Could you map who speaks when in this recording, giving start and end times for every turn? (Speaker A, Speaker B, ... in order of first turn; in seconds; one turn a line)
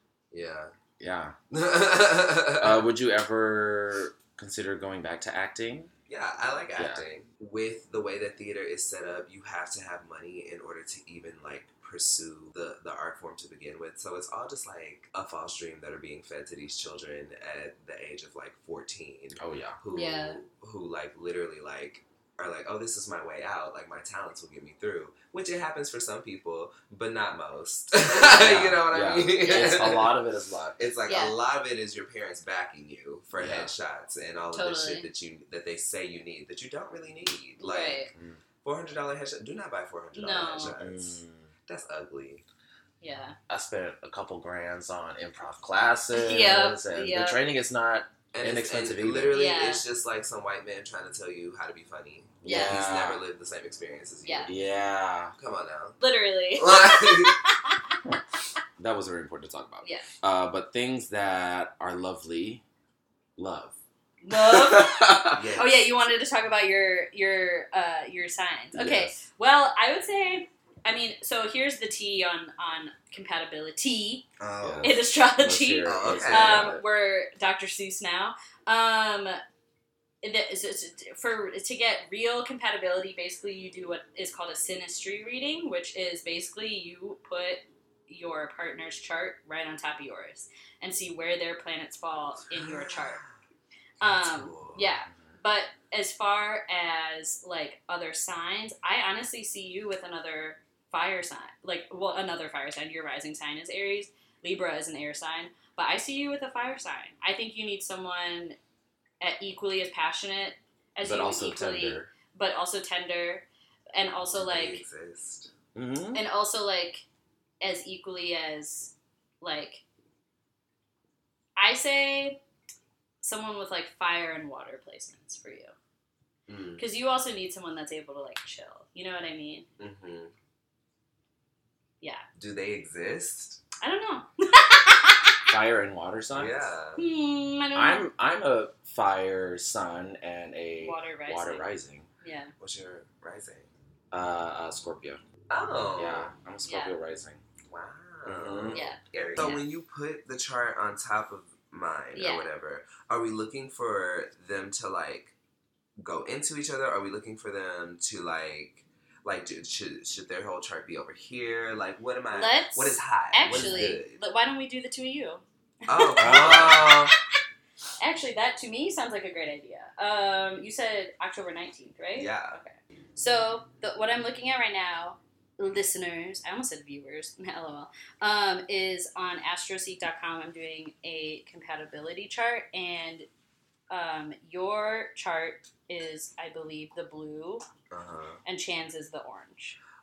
Speaker A: 0.3-0.7
Speaker B: 1.0-1.4
Speaker A: 1.5-2.9
Speaker B: 2.6-5.9
Speaker A: 6.1-30.2
Speaker B: 6.8-7.1
Speaker B: 19.4-19.8
Speaker C: 19.9-20.4
Speaker B: 28.0-30.8
Speaker C: 29.4-29.9
Speaker A: 30.8-42.4
Speaker C: 31.1-31.4
Speaker B: 33.4-33.7
Speaker C: 34.5-35.1
Speaker C: 37.6-38.1
Speaker B: 38.1-38.4
Speaker C: 40.1-40.7
Speaker B: 40.5-41.5
Speaker C: 43.0-43.4
Speaker B: 43.5-49.4
Speaker C: 46.1-47.4
Speaker A: 48.3-54.5
Speaker C: 49.3-49.8
Speaker B: 52.4-53.2
Speaker C: 52.5-52.8
Speaker C: 54.2-54.5
Speaker B: 54.5-55.3
Speaker A: 55.4-56.0
Speaker C: 56.0-58.0
Speaker A: 56.6-57.4
Speaker B: 58.8-62.6
Speaker B: 63.4-63.8
Speaker C: 64.2-74.2
Speaker B: 64.3-65.6
Speaker A: 65.3-65.9
Speaker B: 68.7-69.2
Speaker A: 74.4-75.1
Speaker B: 74.6-76.8
Speaker C: 74.8-79.4
Speaker A: 75.8-76.7
Speaker C: 80.2-93.2
Speaker A: 92.5-93.3
Speaker C: 94.0-108.6
Speaker A: 94.1-94.9
Speaker C: 109.2-114.8
Speaker B: 111.0-112.1
Speaker A: 114.3-115.5
Speaker B: 115.8-116.2
Speaker C: 116.1-117.0
Speaker C: 117.6-119.8
Speaker C: 121.6-122.4
Speaker C: 123.2-125.7
Speaker A: 126.5-126.8
Speaker C: 126.8-129.7
Speaker A: 129.8-130.3
Speaker A: 132.4-133.6
Speaker C: 133.8-135.4
Speaker B: 135.5-136.7
Speaker A: 136.3-137.0
Speaker C: 137.0-138.1
Speaker B: 137.8-142.1
Speaker C: 140.8-141.7
Speaker C: 142.2-142.5
Speaker A: 142.6-143.7
Speaker B: 144.1-145.2
Speaker A: 145.5-146.3
Speaker B: 145.9-147.4
Speaker C: 146.7-147.0
Speaker A: 147.7-155.3
Speaker B: 148.2-148.8
Speaker C: 148.7-149.7
Speaker C: 152.1-152.5
Speaker A: 156.0-164.2
Speaker C: 162.3-167.1
Speaker B: 163.5-164.0
Speaker A: 165.9-167.1
Speaker B: 166.2-167.1
Speaker C: 168.0-183.3
Speaker A: 172.2-172.6
Speaker C: 183.9-187.7
Speaker A: 187.9-188.4
Speaker C: 188.4-189.8